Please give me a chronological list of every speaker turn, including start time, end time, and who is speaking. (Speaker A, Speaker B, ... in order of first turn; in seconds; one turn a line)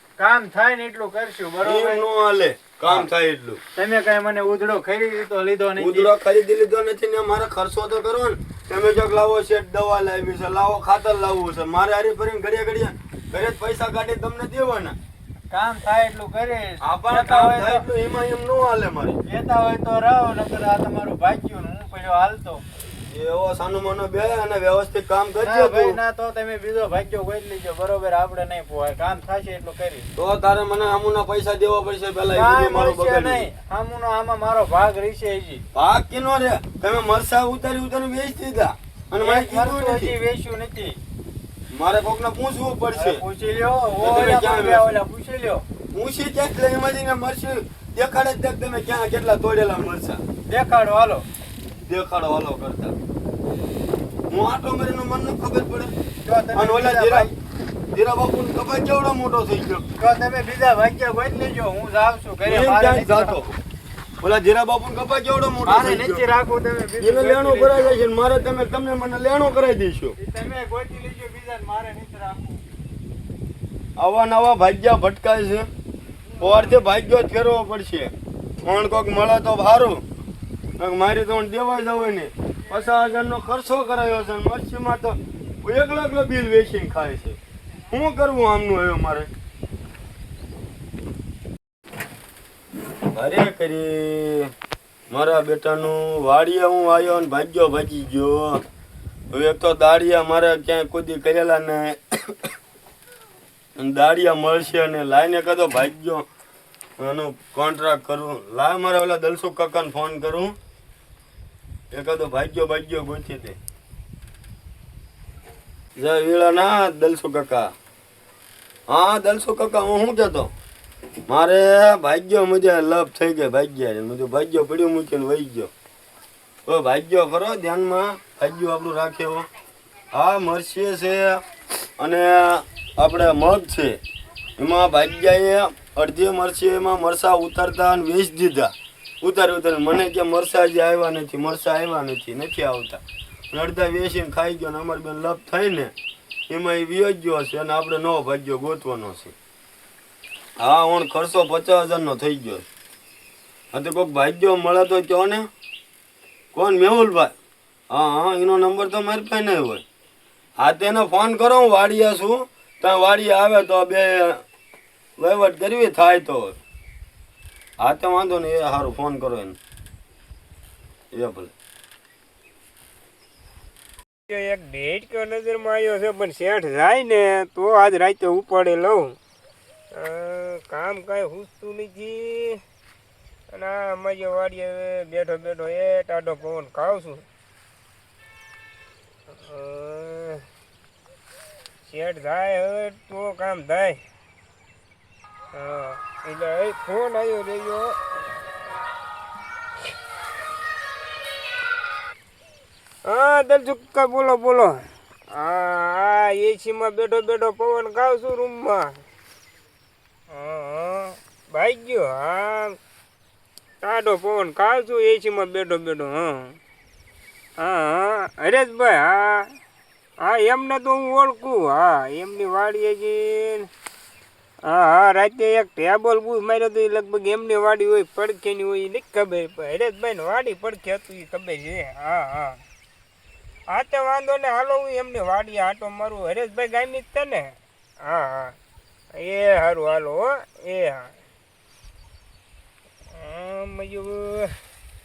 Speaker A: 0.2-2.1
Speaker B: 1.6-3.6
Speaker A: 3.8-6.1
Speaker B: 5.8-15.0
Speaker A: 15.5-17.9
Speaker B: 16.8-19.2
Speaker A: 19.3-22.6
Speaker B: 23.1-26.0
Speaker A: 25.4-30.1
Speaker B: 30.2-33.5
Speaker A: 32.3-35.6
Speaker B: 35.7-40.1
Speaker A: 39.2-41.0
Speaker B: 41.7-43.2
Speaker A: 42.9-45.6
Speaker B: 44.0-44.9
Speaker B: 45.9-50.2
Speaker A: 50.5-51.3
Speaker B: 51.9-53.0
Speaker B: 54.3-55.9
Speaker A: 56.2-57.3
Speaker B: 56.5-57.3
Speaker B: 57.9-59.9
Speaker A: 60.0-63.4
Speaker B: 62.5-63.5
Speaker B: 64.2-66.2
Speaker A: 65.6-68.0
Speaker B: 67.0-70.2
Speaker A: 70.2-72.6
Speaker B: 74.0-75.7
Speaker B: 76.4-80.0
Speaker B: 80.8-87.4
Speaker B: 87.9-89.3
Speaker B: 93.1-94.5
Speaker B: 95.1-98.6
Speaker B: 99.3-102.4
Speaker B: 103.8-106.3
Speaker B: 107.0-110.6
Speaker B: 111.9-113.6
Speaker B: 116.0-117.7
Speaker B: 118.9-120.5
Speaker B: 121.3-125.7
Speaker B: 126.7-129.5
Speaker B: 130.1-131.4
Speaker B: 132.0-134.0
Speaker B: 134.6-145.9
Speaker B: 146.5-149.3
Speaker B: 150.6-152.7
Speaker B: 153.7-155.5
Speaker B: 156.5-157.3
Speaker B: 157.9-159.8
Speaker B: 160.6-164.4
Speaker B: 165.2-166.6
Speaker B: 167.8-169.6
Speaker B: 171.1-171.5
Speaker C: 174.3-179.2
Speaker C: 179.9-182.6
Speaker C: 183.5-187.2
Speaker C: 189.3-190.4
Speaker C: 191.8-194.0
Speaker C: 195.5-198.0
Speaker C: 203.1-204.8
Speaker C: 205.3-209.0
Speaker C: 210.3-212.8
Speaker C: 213.8-216.6
Speaker C: 217.6-219.5
Speaker C: 220.2-223.7
Speaker C: 224.7-232.6
Speaker C: 233.7-238.6
Speaker C: 239.2-241.1
Speaker C: 243.1-244.7